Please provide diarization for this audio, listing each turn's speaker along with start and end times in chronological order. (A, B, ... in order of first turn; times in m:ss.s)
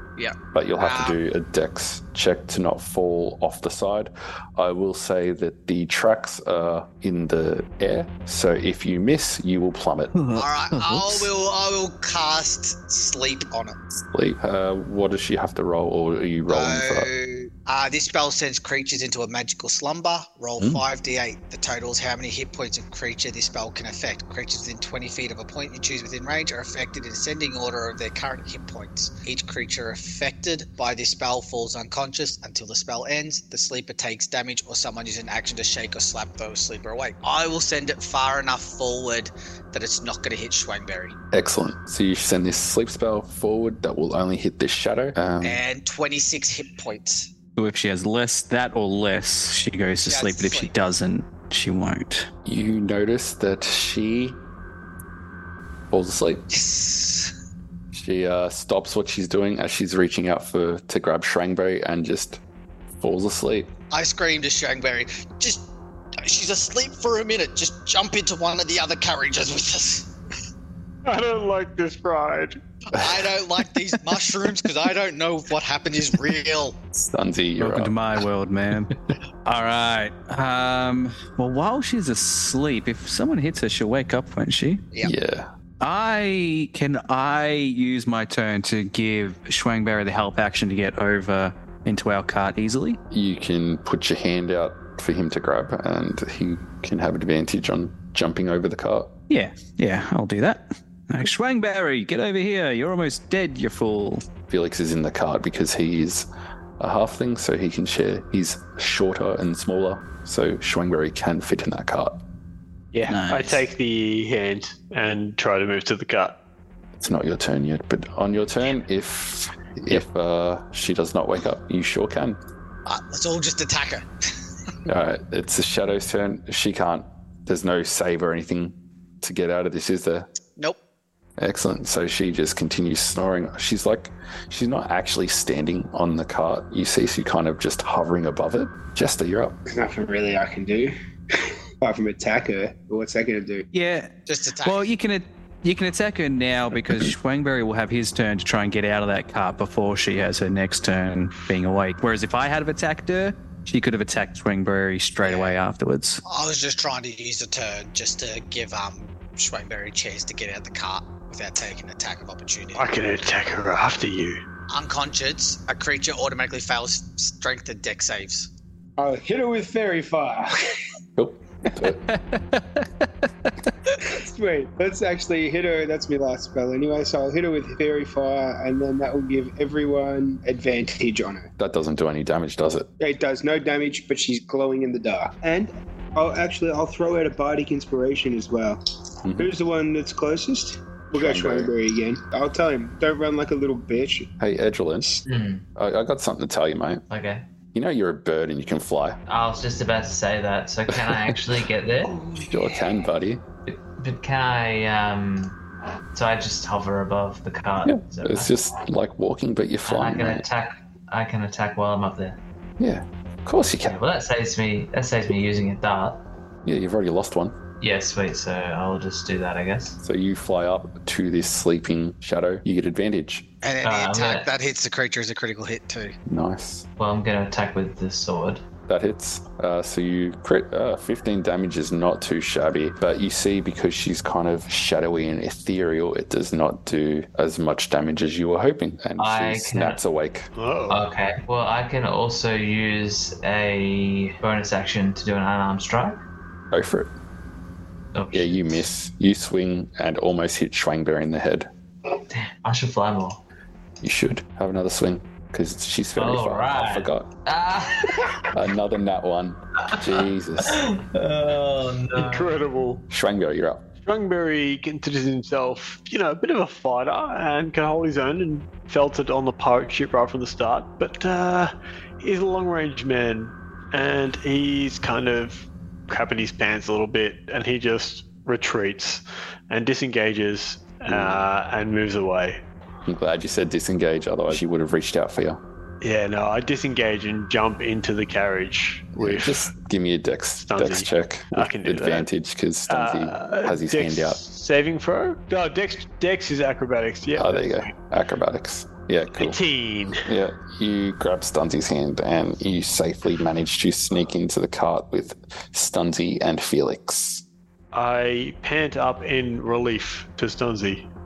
0:00.2-0:01.2 A
0:00.5-0:10.1 B
0:10.1-0:11.3 C
0:10.3-0:13.8 A
0:13.9-0:17.1 B
0:16.5-0:41.2 A
0:41.3-0:45.6 B
0:45.4-0:47.3 A
0:47.6-0:52.3 C
0:50.0-0:50.7 A
0:52.4-0:54.4 B
0:55.9-0:56.5 B
0:56.5-0:57.3 A
0:57.9-1:02.4 B
1:03.0-1:03.7 B
1:03.9-1:05.6 A
1:06.2-1:10.1 A
1:11.0-1:12.6 D
1:12.9-1:16.8 A
1:17.0-1:18.0 B
1:17.6-1:24.8 C
1:25.0-1:25.5 B
1:25.8-1:33.0 C
1:33.1-1:39.1 B
1:39.3-1:44.2 C
1:44.5-1:46.3 B
1:46.8-1:52.2 B
1:52.9-1:56.4 D
1:53.1-1:53.6 C
1:57.0-2:02.4 B
2:02.9-2:04.1 A
2:04.9-2:10.3 B
2:11.4-2:19.6 B
2:19.7-2:23.7 E
2:23.7-2:36.2 C
2:24.3-2:24.9 A
2:35.2-2:35.6 A
2:36.2-2:42.9 A
2:42.8-2:44.4 D
2:44.7-2:48.5 A
2:49.0-2:50.5 E
2:51.2-2:52.1 B
2:52.1-2:53.5 C
2:54.0-3:01.5 E
3:01.6-3:02.9 B
3:03.0-3:08.8 E
3:09.2-3:09.5 B
3:09.4-3:14.3 E
3:11.2-3:11.7 B
3:14.4-3:15.2 B
3:15.3-3:15.6 F
3:15.8-3:17.0 B
3:17.1-3:17.4 F
3:17.7-3:19.2 B
3:19.3-3:22.2 F
3:22.1-3:22.8 E
3:22.4-3:23.4 B
3:23.7-3:25.6 F
3:26.1-3:28.5 F
3:27.8-3:30.4 B
3:29.9-3:32.4 F
3:32.8-3:34.0 B
3:33.8-3:36.2 F
3:36.6-3:37.6 B
3:37.8-3:40.0 F
3:40.0-3:43.4 B
3:43.6-3:46.2 A
3:43.8-3:44.5 F
3:46.3-3:46.9 B
3:47.0-3:48.6 F
3:48.9-4:00.5 B
3:59.2-4:00.0 F
4:00.6-4:01.0 D
4:00.9-4:06.2 F
4:06.7-4:07.1 B
4:08.1-4:08.8 F
4:08.3-4:11.7 B
4:12.3-4:13.4 F
4:14.0-4:17.3 B
4:16.2-4:18.5 F
4:18.5-4:20.8 B
4:20.1-4:22.7 F
4:22.2-4:23.0 D
4:23.1-4:23.8 B
4:24.1-4:42.6 D
4:41.1-4:41.4 B
4:43.1-4:45.6 B
4:46.0-4:49.7 D
4:49.2-4:54.4 B
4:50.6-4:52.3 D
4:52.9-4:57.9 D
4:57.4-4:59.6 B
4:59.3-5:00.3 D
5:00.2-5:07.4 B
5:07.9-5:11.1 D